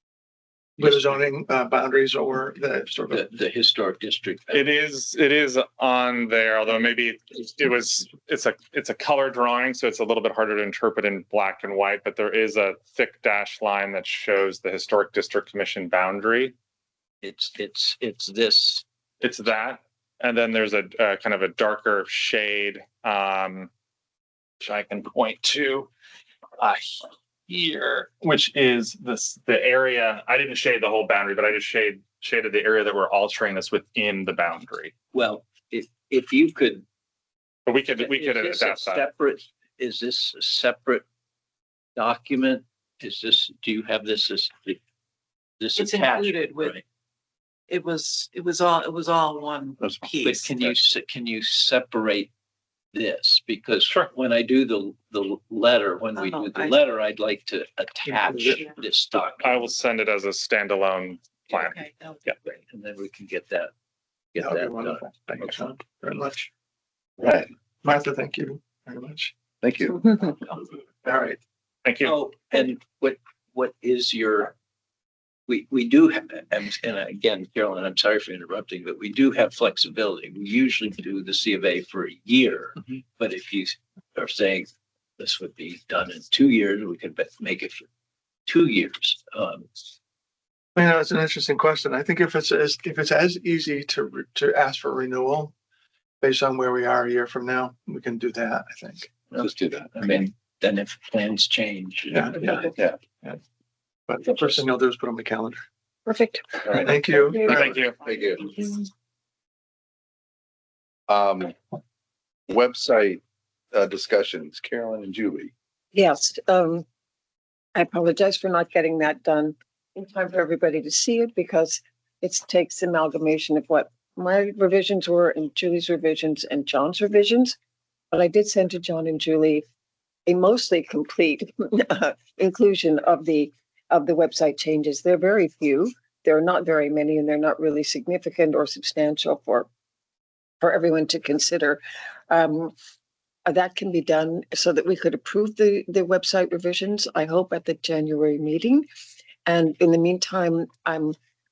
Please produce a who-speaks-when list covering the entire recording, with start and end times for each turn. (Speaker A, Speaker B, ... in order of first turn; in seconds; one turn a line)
Speaker A: 0.8-3.2
Speaker B: 3.1-4.7
Speaker C: 4.5-16.5
Speaker B: 17.2-18.8
Speaker C: 19.2-23.7
Speaker C: 24.6-25.9
Speaker C: 26.6-34.9
Speaker B: 35.1-36.8
Speaker C: 37.6-39.1
Speaker B: 38.0-41.0
Speaker B: 42.0-44.8
Speaker B: 45.6-46.8
Speaker D: 45.8-46.8
Speaker D: 47.7-50.5
Speaker E: 49.8-50.7
Speaker B: 50.2-52.3
Speaker B: 52.9-59.7
Speaker D: 56.1-56.8
Speaker A: 58.0-58.6
Speaker C: 59.4-62.3
Speaker D: 61.5-62.6
Speaker B: 62.7-63.7
Speaker B: 64.3-65.5
Speaker A: 64.4-66.5
Speaker E: 67.2-67.5
Speaker A: 67.8-69.3
Speaker E: 69.6-70.2
Speaker A: 71.0-71.4
Speaker C: 71.8-72.1
Speaker B: 72.0-74.5
Speaker B: 75.5-87.9
Speaker B: 88.5-89.8
Speaker A: 90.7-95.5
Speaker A: 96.2-99.1
Speaker B: 99.3-102.7
Speaker E: 99.3-100.2
Speaker A: 102.1-103.4
Speaker A: 104.1-105.6
Speaker F: 106.0-107.7
Speaker E: 106.7-108.8
Speaker A: 106.7-107.7
Speaker C: 107.5-108.0
Speaker E: 111.1-111.5
Speaker E: 112.5-113.2
Speaker E: 113.7-115.5
Speaker F: 115.9-116.8
Speaker F: 117.7-127.5
Speaker F: 128.1-129.6
Speaker F: 130.3-139.7
Speaker F: 140.6-142.7
Speaker F: 143.4-148.8
Speaker F: 149.4-151.1